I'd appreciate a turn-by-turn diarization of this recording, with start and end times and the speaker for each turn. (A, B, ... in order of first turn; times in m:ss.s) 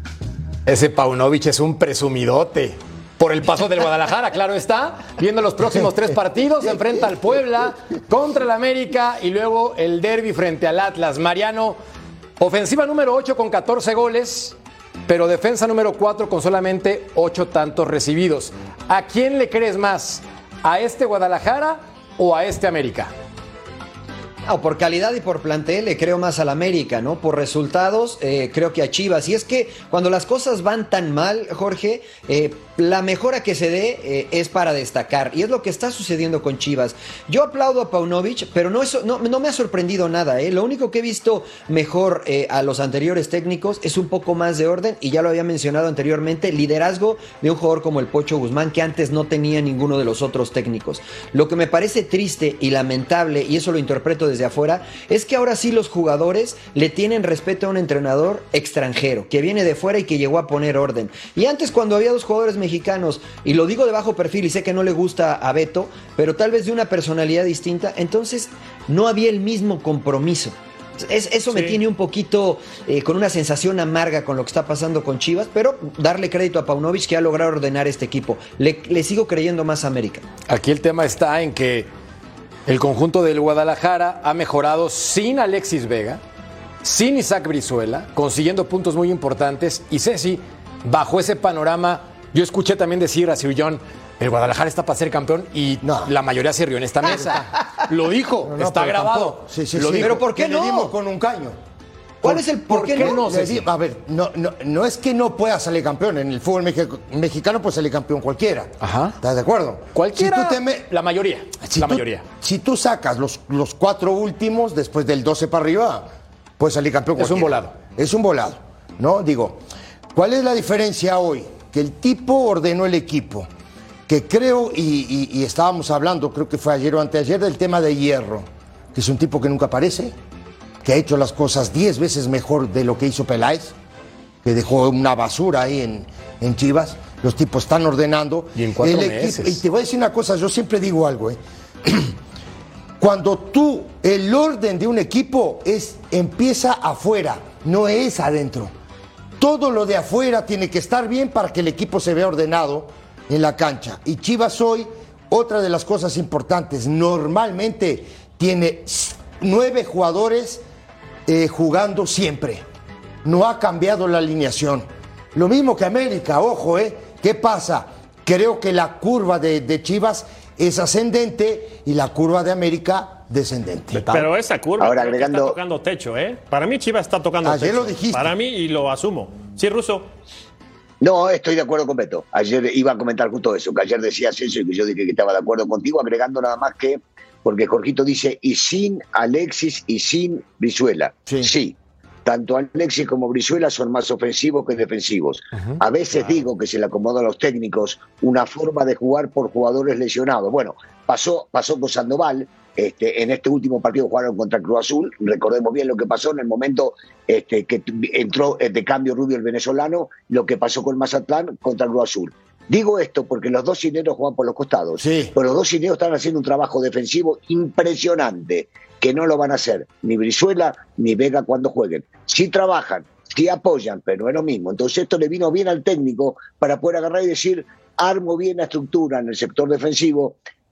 0:00.6-0:11.8 A
0:12.4-0:14.6 A
0:15.1-0:23.1 A
0:24.4-1:20.2 B
1:11.5-1:11.8 C
1:20.5-1:21.9 A
1:22.7-1:26.2 A
1:26.8-1:40.2 A
1:35.8-1:36.1 D
1:38.4-1:41.6 D
1:40.0-1:40.9 B
1:42.2-1:43.2 B
1:42.2-1:43.6 A
1:42.3-1:50.9 D
1:48.8-1:49.2 A
1:49.9-1:52.2 A
1:51.6-1:56.0 D
1:56.6-1:59.6 D
1:57.2-1:57.7 A
2:00.1-2:03.5 D
2:04.1-2:10.1 D
2:10.8-2:13.7 D
2:14.4-2:22.1 D
2:18.6-2:19.6 A
2:23.0-2:28.7 D
2:29.4-2:40.6 D
2:41.2-2:42.6 D
2:43.2-2:54.1 D
2:53.9-2:54.3 A
2:54.1-3:00.1 C
2:54.8-2:55.6 E
2:57.4-2:58.3 D
3:01.0-3:50.4 E
3:35.0-3:35.3 D